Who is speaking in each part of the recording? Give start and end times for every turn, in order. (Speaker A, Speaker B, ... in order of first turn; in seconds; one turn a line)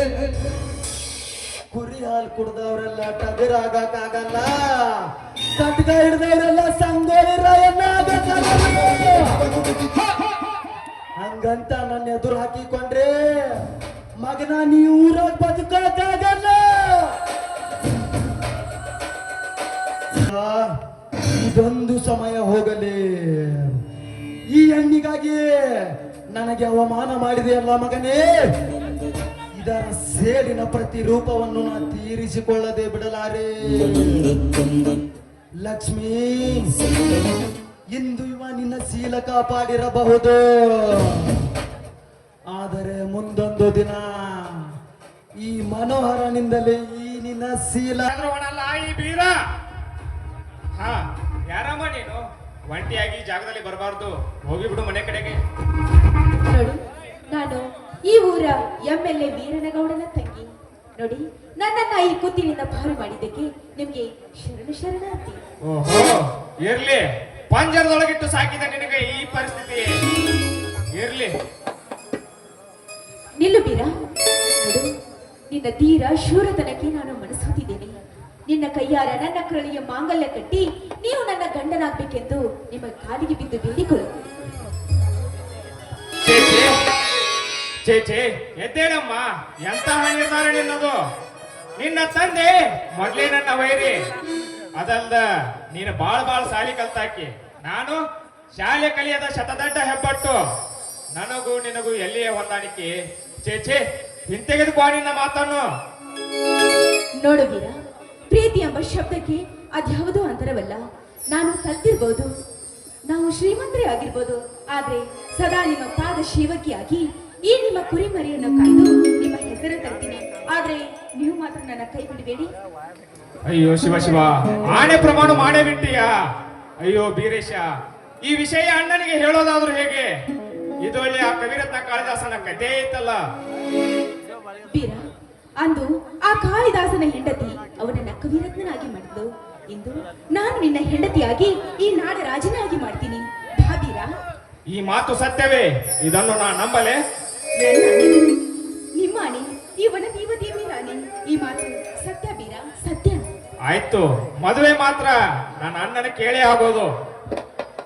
Speaker A: 1.7-9.5
Speaker A: 11.2-13.7
Speaker A: 14.2-17.2
Speaker A: 20.1-20.8
Speaker A: 21.3-23.8
Speaker A: 24.5-28.6
Speaker A: 29.6-34.4
Speaker A: 35.6-36.8
Speaker A: 37.9-41.5
Speaker A: 42.5-44.7
Speaker A: 45.4-48.1
Speaker B: 48.1-49.4
Speaker B: 50.8-55.4
Speaker C: 56.4-65.4
Speaker B: 65.7-70.0
Speaker B: 71.0-71.3
Speaker C: 73.4-73.9
Speaker C: 74.5-74.9
Speaker C: 75.5-78.0
Speaker C: 78.5-84.1
Speaker B: 86.2-86.8
Speaker B: 87.8-91.0
Speaker B: 91.8-94.1
Speaker B: 94.8-98.0
Speaker B: 98.6-100.4
Speaker B: 101.2-102.9
Speaker B: 103.5-105.6
Speaker C: 107.2-107.8
Speaker C: 108.3-112.3
Speaker C: 113.1-122.5
Speaker B: 123.5-126.1
Speaker B: 126.8-127.7
Speaker B: 128.2-130.1
Speaker B: 130.8-133.2
Speaker C: 134.7-135.1
Speaker C: 135.6-144.1
Speaker B: 144.7-147.0
Speaker C: 147.6-148.4
Speaker C: 149.0-153.3
Speaker B: 153.7-156.9